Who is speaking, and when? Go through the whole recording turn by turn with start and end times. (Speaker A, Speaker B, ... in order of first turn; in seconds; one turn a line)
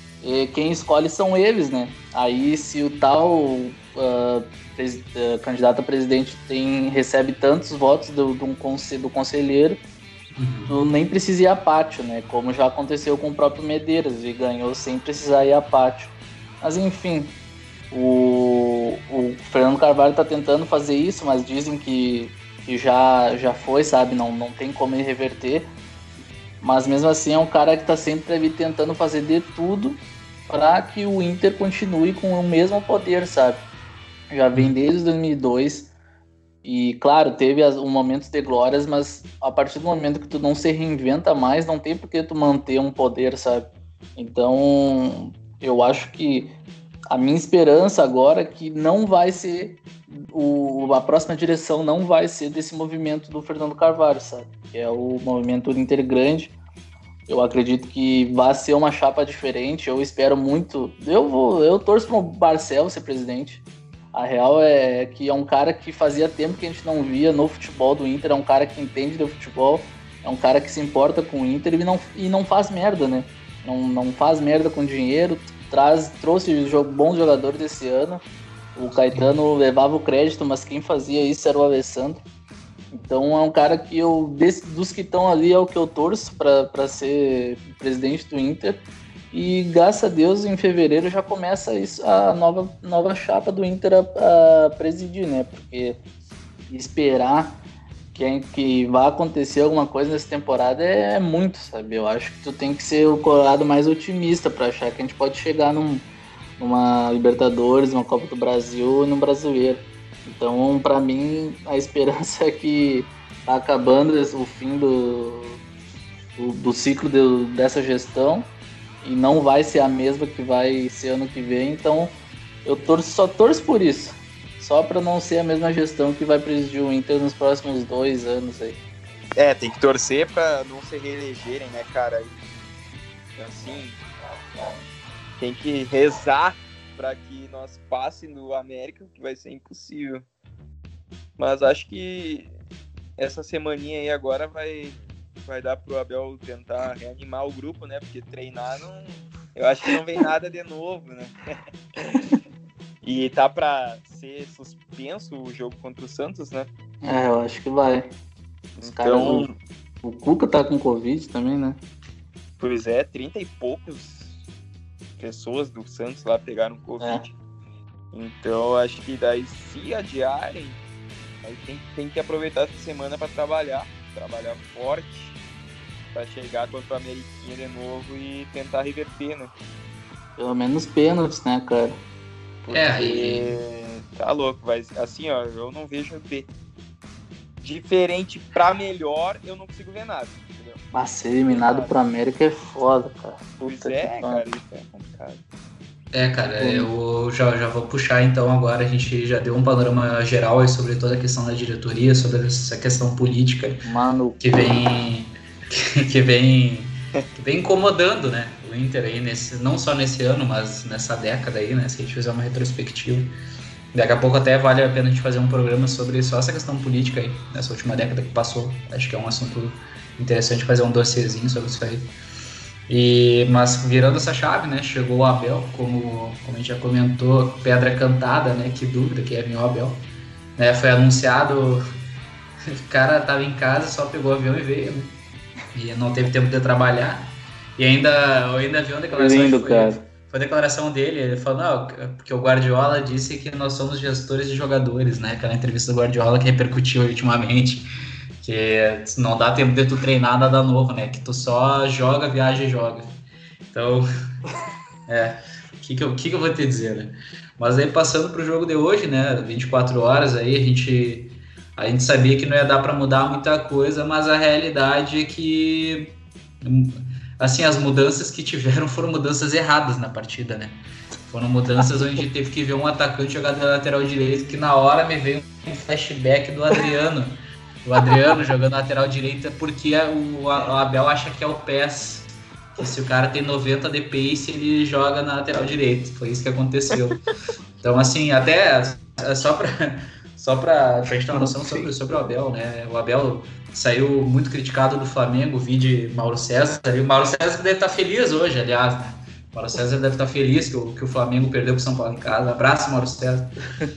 Speaker A: 0.2-9.8
Speaker B: 10.3-10.8
Speaker A: 10.7-17.4
Speaker A: 17.9-25.7
Speaker A: 26.6-33.6
Speaker A: 34.3-35.9
Speaker A: 36.6-46.5
Speaker A: 47.1-56.5
Speaker A: 57.3-63.6
Speaker A: 64.1-78.2
Speaker A: 78.8-82.2
Speaker A: 82.9-96.0
Speaker A: 96.7-97.6
Speaker A: 98.1-106.1
Speaker A: 106.6-115.6
Speaker A: 116.4-118.5
Speaker A: 119.0-128.8
Speaker C: 129.4-132.7
Speaker C: 133.4-134.0
Speaker C: 135.4-140.3
Speaker C: 141.4-142.5
Speaker C: 143.2-152.2
Speaker C: 153.0-156.7
Speaker A: 157.0-158.1
Speaker C: 158.8-159.6
Speaker A: 158.9-159.5
Speaker A: 160.0-161.8
Speaker C: 162.6-164.4
Speaker C: 165.2-167.4
Speaker C: 168.1-170.8
Speaker C: 171.4-175.4
Speaker C: 176.1-179.5
Speaker A: 180.4-182.0
Speaker C: 182.6-186.5
Speaker B: 182.7-183.6
Speaker C: 187.6-190.8
Speaker A: 190.9-194.4
Speaker C: 191.5-191.9
Speaker C: 193.6-195.4
Speaker B: 196.1-203.9
Speaker A: 196.6-196.9
Speaker A: 203.9-204.4
Speaker B: 204.4-213.3
Speaker B: 213.9-222.1
Speaker B: 222.9-231.8
Speaker B: 232.9-235.2
Speaker B: 235.7-247.9
Speaker A: 239.1-240.0
Speaker B: 248.4-253.1
Speaker B: 253.7-254.0
Speaker B: 255.1-287.2
Speaker B: 287.8-303.6
Speaker C: 291.4-291.9